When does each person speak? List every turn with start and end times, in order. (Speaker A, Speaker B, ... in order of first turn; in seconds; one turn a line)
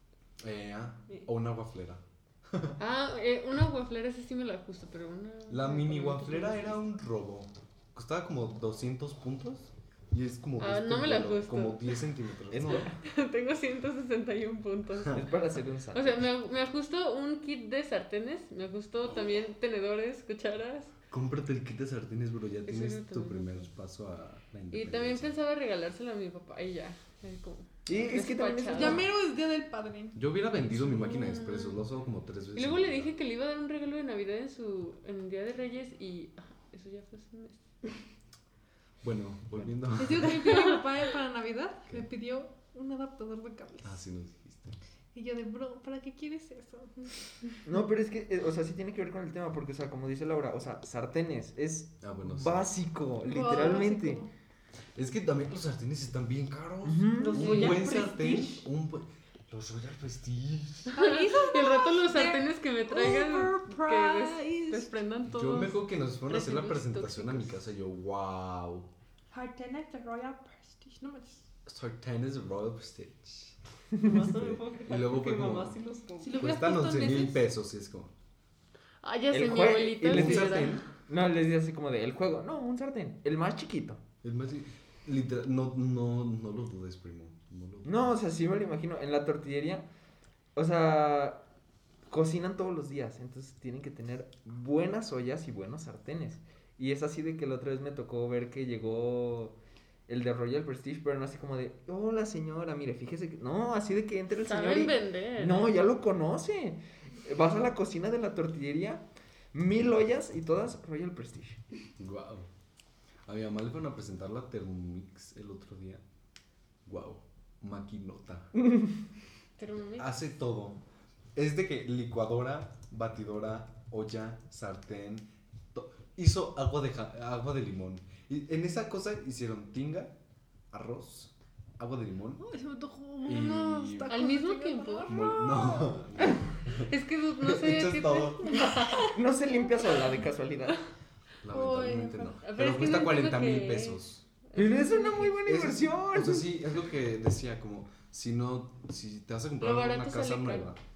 Speaker A: 0.4-2.8
Speaker B: 2.8-6.7
Speaker A: 5.5-12.9
Speaker B: 10.6-12.0
Speaker C: 12.5-12.9
Speaker B: 12.9-15.2
Speaker C: 15.1-16.3
Speaker B: 15.9-20.9
Speaker A: 21.1-25.4
Speaker B: 22.6-23.6
Speaker B: 24.7-29.0
Speaker C: 27.9-29.0
Speaker D: 28.7-30.8
Speaker A: 30.1-33.1
Speaker B: 30.8-31.8
Speaker B: 32.5-37.6
Speaker A: 39.0-40.5
Speaker D: 39.9-44.0
Speaker A: 43.8-44.8
Speaker D: 45.1-47.2
Speaker C: 47.6-54.2
Speaker A: 52.0-52.7
Speaker D: 53.2-54.3
Speaker A: 55.0-61.0
Speaker C: 56.8-57.5
Speaker E: 57.2-58.6
Speaker B: 57.4-57.8
Speaker D: 60.9-64.9
Speaker B: 61.0-67.6
Speaker A: 65.2-68.9
Speaker D: 69.3-71.4
Speaker A: 71.7-73.6
Speaker E: 74.0-76.5
Speaker A: 74.2-75.8
Speaker D: 76.2-77.4
Speaker A: 76.3-78.1
Speaker B: 79.0-80.8
Speaker C: 79.3-84.0
Speaker A: 80.0-80.8
Speaker A: 84.2-88.1
Speaker C: 87.8-89.8
Speaker C: 90.5-91.4
Speaker C: 92.1-99.6
Speaker C: 100.1-111.6
Speaker B: 104.4-105.7
Speaker A: 112.0-112.5
Speaker A: 113.2-116.0
Speaker A: 116.8-118.5
Speaker C: 118.6-119.0
Speaker B: 119.6-120.1
Speaker A: 120.0-120.8
Speaker A: 121.3-130.2
Speaker A: 130.7-132.5
Speaker D: 132.4-136.1
Speaker A: 133.2-134.1
Speaker B: 134.1-135.7
Speaker A: 135.1-138.7
Speaker B: 136.7-139.1
Speaker D: 138.6-139.0
Speaker C: 138.9-140.9
Speaker A: 141.4-144.2
Speaker D: 141.5-142.4
Speaker B: 142.4-145.4
Speaker C: 144.5-146.5
Speaker A: 145.4-150.8
Speaker B: 149.6-150.7